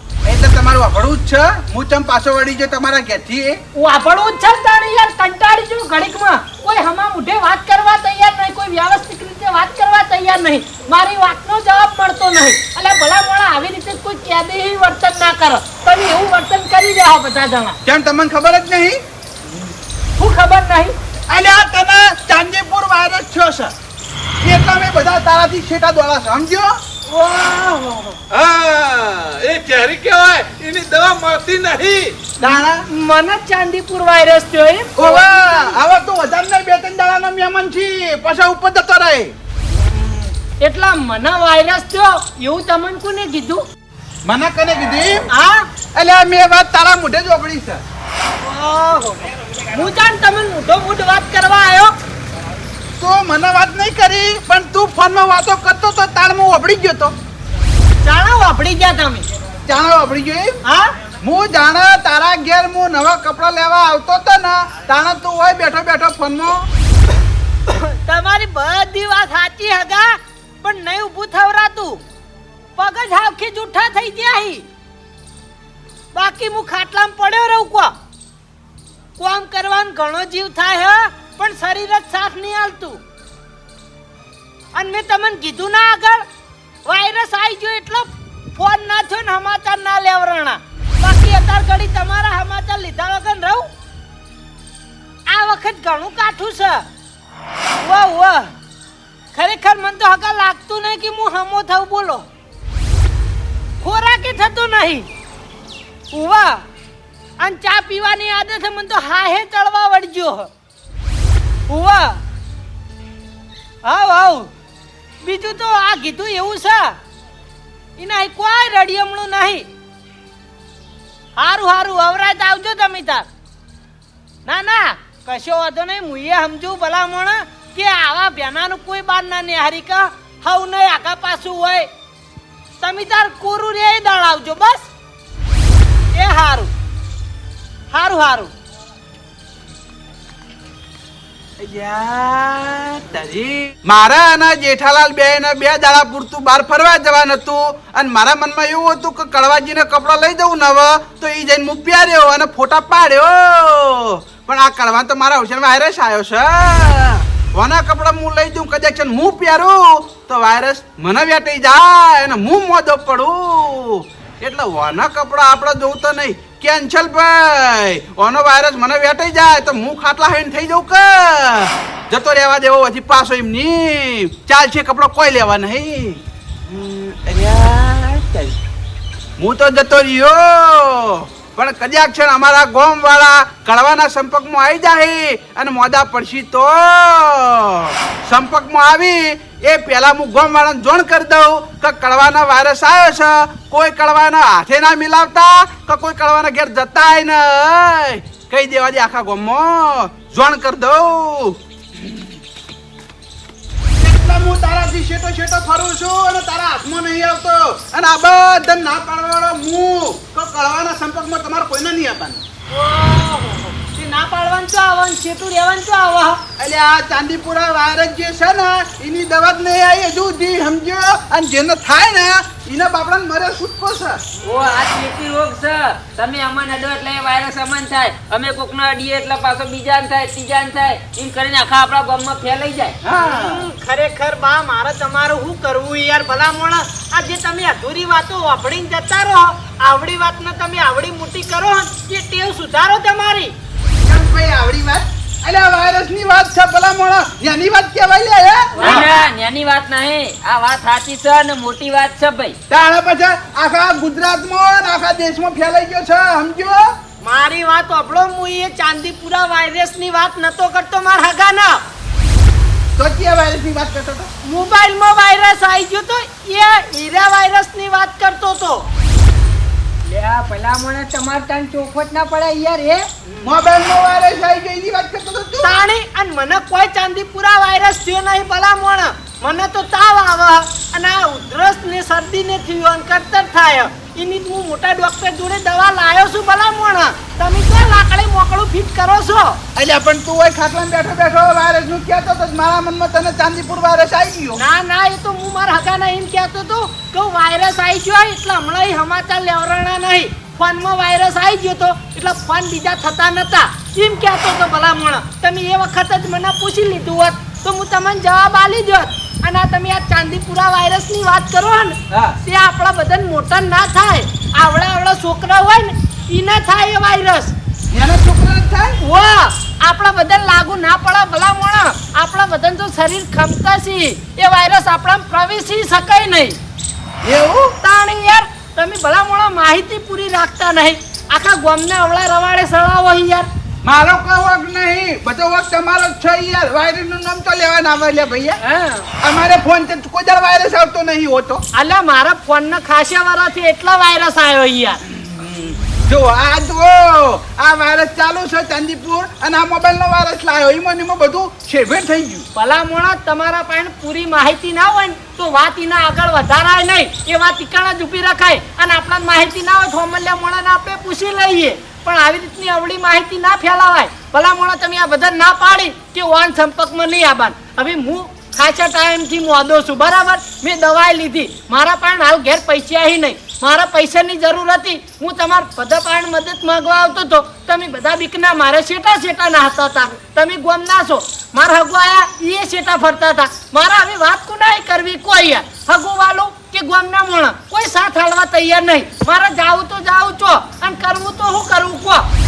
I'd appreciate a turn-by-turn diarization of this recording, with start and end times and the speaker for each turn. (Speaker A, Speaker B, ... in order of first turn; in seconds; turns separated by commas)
Speaker A: 0.2-3.6, Speaker B: 3.7-17.8, Speaker A: 17.8-19.0, Speaker B: 20.2-20.9, Speaker A: 21.3-23.7, Speaker A: 24.4-26.7, Speaker B: 27.1-28.2, Speaker C: 28.3-32.2, Speaker A: 32.4-32.8, Speaker B: 32.4-35.8, Speaker A: 35.0-39.3, Speaker B: 39.8-43.6, Speaker A: 44.2-45.3, Speaker B: 45.3-45.6, Speaker A: 45.9-47.8, Speaker B: 48.4-51.9, Speaker A: 53.0-57.1, Speaker B: 58.0-59.2, Speaker A: 59.6-60.6, Speaker B: 60.6-60.9, Speaker A: 61.2-66.7, Speaker B: 67.7-72.0, Speaker B: 72.8-74.6, Speaker B: 76.1-77.9, Speaker B: 79.2-83.0, Speaker B: 84.7-86.2, Speaker B: 86.8-93.7, Speaker B: 95.3-96.8, Speaker B: 97.8-98.5, Speaker B: 99.3-102.3, Speaker B: 103.8-105.1, Speaker B: 106.1-106.6, Speaker B: 107.4-110.5, Speaker B: 111.7-112.2, Speaker B: 113.8-114.5, Speaker B: 115.2-117.0, Speaker B: 118.0-119.7, Speaker B: 121.4-123.3, Speaker B: 124.5-131.9, Speaker B: 132.8-134.9, Speaker B: 136.1-136.7, Speaker B: 137.9-138.5, Speaker A: 141.6-178.6, Speaker A: 179.4-202.3, Speaker A: 204.0-212.4, Speaker B: 212.7-216.4, Speaker A: 216.6-224.3, Speaker D: 224.4-233.0, Speaker A: 233.0-233.7, Speaker B: 233.1-243.5, Speaker A: 244.0-249.1, Speaker B: 248.8-249.1, Speaker D: 248.8-252.6, Speaker A: 252.7-256.9, Speaker B: 257.2-261.8, Speaker A: 262.9-264.3, Speaker B: 264.4-268.9, Speaker E: 270.0-273.1, Speaker A: 273.4-275.8, Speaker B: 275.6-289.6, Speaker A: 289.8-294.6, Speaker B: 294.6-317.6, Speaker A: 312.1-312.4, Speaker A: 317.9-319.0, Speaker B: 319.0-326.6, Speaker A: 327.2-327.8, Speaker B: 327.8-333.5, Speaker A: 333.8-338.6, Speaker E: 338.6-339.1, Speaker A: 339.2-341.6, Speaker B: 341.7-345.0, Speaker A: 345.0-352.5, Speaker B: 352.6-392.2